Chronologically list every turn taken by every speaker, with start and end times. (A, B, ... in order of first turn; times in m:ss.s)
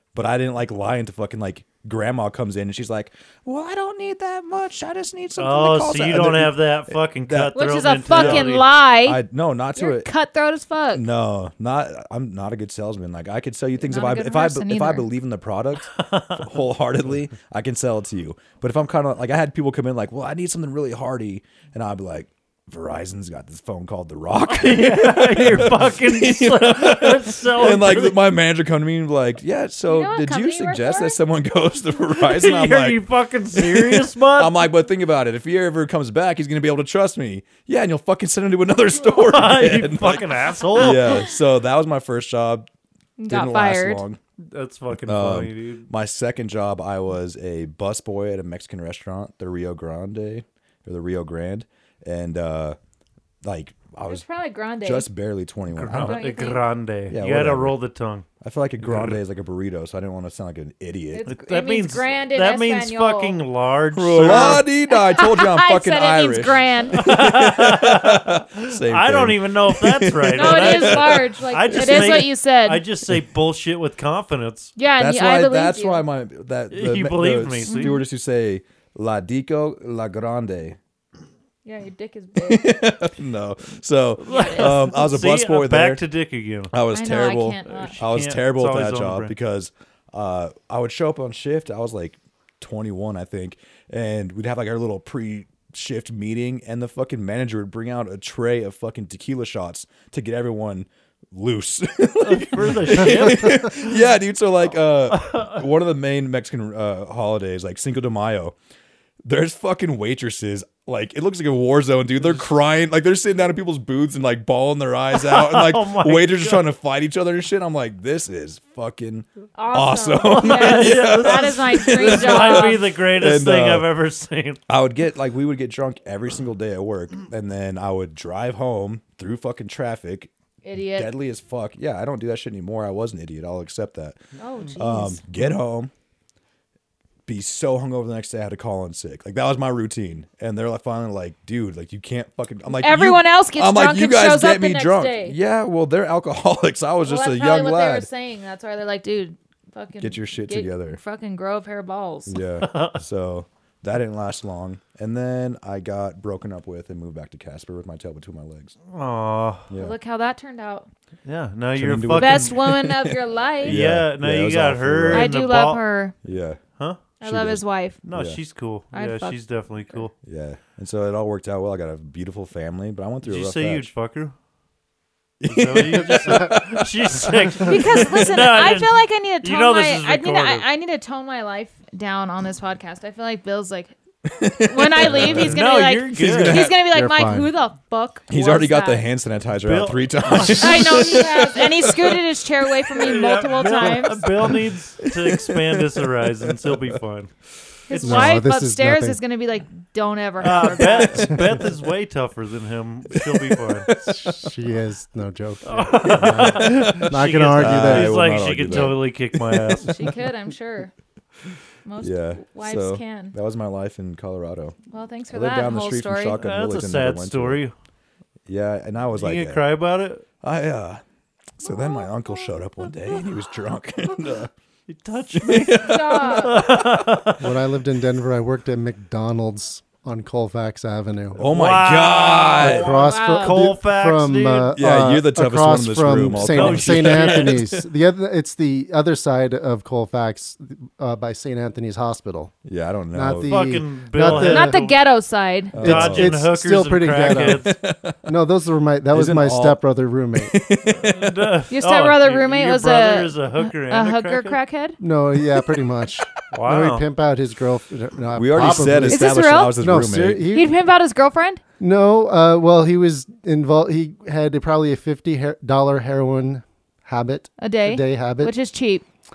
0:00.1-0:10.1 A
0:05.4-0:08.7 B
0:07.5-0:09.2 C
0:09.8-0:11.0 C
0:10.9-0:33.0 A
0:13.8-0:15.1 C
0:15.9-0:16.5 B
0:24.5-0:28.2 B
0:29.9-0:31.2 C
0:32.2-0:34.6 B
0:33.5-0:42.7 A
0:39.0-0:41.3 B
0:43.2-0:44.0 C
0:43.3-0:44.2 A
0:44.4-0:45.9 B
0:44.9-0:52.8 A
0:53.4-0:54.2 A
0:54.1-0:55.1 C
0:54.8-0:56.2 A
0:55.7-0:58.2 B
0:56.0-0:56.6 C
0:57.1-0:57.8 A
0:58.4-1:01.3 A
0:58.8-0:59.2 B
1:01.1-1:03.4 C
1:01.3-1:04.6 B
1:03.9-1:12.3 A
1:04.2-1:07.0 C
1:06.9-1:14.7 B
1:10.3-1:12.8 C
1:14.8-1:16.0 C
1:15.0-1:20.8 A
1:16.7-1:18.0 B
1:17.7-1:18.0 C
1:21.6-1:22.8 C
1:22.4-1:26.0 A
1:24.2-1:26.7 B
1:24.2-1:24.7 C
1:26.7-1:48.6 A
1:26.9-1:28.0 C
1:27.6-1:29.3 B
1:42.2-1:44.0 B
1:44.9-1:45.6 B
1:49.2-2:03.9 A
1:55.1-1:56.6 B
1:59.5-2:02.8 C
2:00.2-2:04.6 B
2:04.7-2:14.2 A
2:10.6-2:11.1 C
2:14.4-2:15.2 C
2:14.8-2:15.9 A
2:17.3-2:28.1 A
2:22.7-2:25.4 C
2:27.0-2:32.4 C
2:30.0-2:31.0 A
2:32.3-2:38.8 A
2:32.6-2:33.0 B
2:38.9-2:39.7 B
2:39.7-2:40.0 A
2:39.8-2:40.9 C
2:41.2-2:42.6 B
2:41.7-2:45.3 A
2:42.1-2:43.8 C
2:43.6-2:45.8 B
2:45.1-2:46.1 C
2:46.2-2:46.6 A
2:47.2-2:48.0 C
2:47.2-2:48.4 A
2:48.0-2:50.1 B
2:48.9-2:49.4 C
2:50.2-2:53.9 A
2:53.2-2:54.3 B
2:55.4-2:58.0 A
2:55.5-3:00.6 B
2:56.2-2:56.5 D
2:57.6-3:04.0 C
3:04.2-3:06.8 A
3:04.5-3:09.1 C
3:05.0-3:06.7 B
3:06.9-3:07.5 D
3:08.3-3:12.2 A
3:09.6-3:11.3 B
3:10.5-3:14.2 C
3:12.9-3:17.3 B
3:13.8-3:16.9 A
3:17.9-3:21.6 C
3:17.9-3:18.4 B
3:18.0-3:19.2 D
3:20.4-3:23.9 B
3:23.1-3:24.5 A
3:24.0-3:28.2 D
3:25.6-3:30.0 B
3:26.0-3:30.1 A
3:29.8-3:30.9 C
3:31.8-3:33.4 C
3:32.0-3:34.8 A
3:34.9-3:36.4 C
3:35.3-3:37.6 A
3:36.4-3:37.7 B
3:38.5-3:39.6 A
3:39.1-3:40.2 B
3:40.4-3:41.0 A
3:41.6-3:44.5 A
3:41.7-3:42.1 C
3:44.9-3:47.5 B
3:45.4-3:47.0 A
3:45.7-3:46.6 C
3:47.4-3:51.4 D
3:51.3-3:52.9 A
3:51.4-3:54.8 B
3:52.6-4:02.5 D
3:52.6-3:53.6 C
3:54.7-3:57.9 A
3:56.3-3:57.6 B
4:02.6-4:03.6 A
4:03.1-4:04.8 D
4:03.4-4:05.0 B
4:04.3-4:05.8 C
4:05.7-4:06.4 A
4:05.7-4:07.7 B
4:05.8-4:07.7 D
4:07.3-4:08.2 A
4:08.2-4:10.5 D
4:09.1-4:09.8 A
4:10.3-4:11.6 A
4:11.0-4:14.6 B
4:11.7-4:15.0 C
4:15.0-4:20.7 D
4:16.5-4:17.0 B
4:18.3-4:20.5 A
4:19.0-4:19.8 C
4:20.5-4:21.6 C
4:21.8-4:28.5 D
4:27.6-4:29.0 C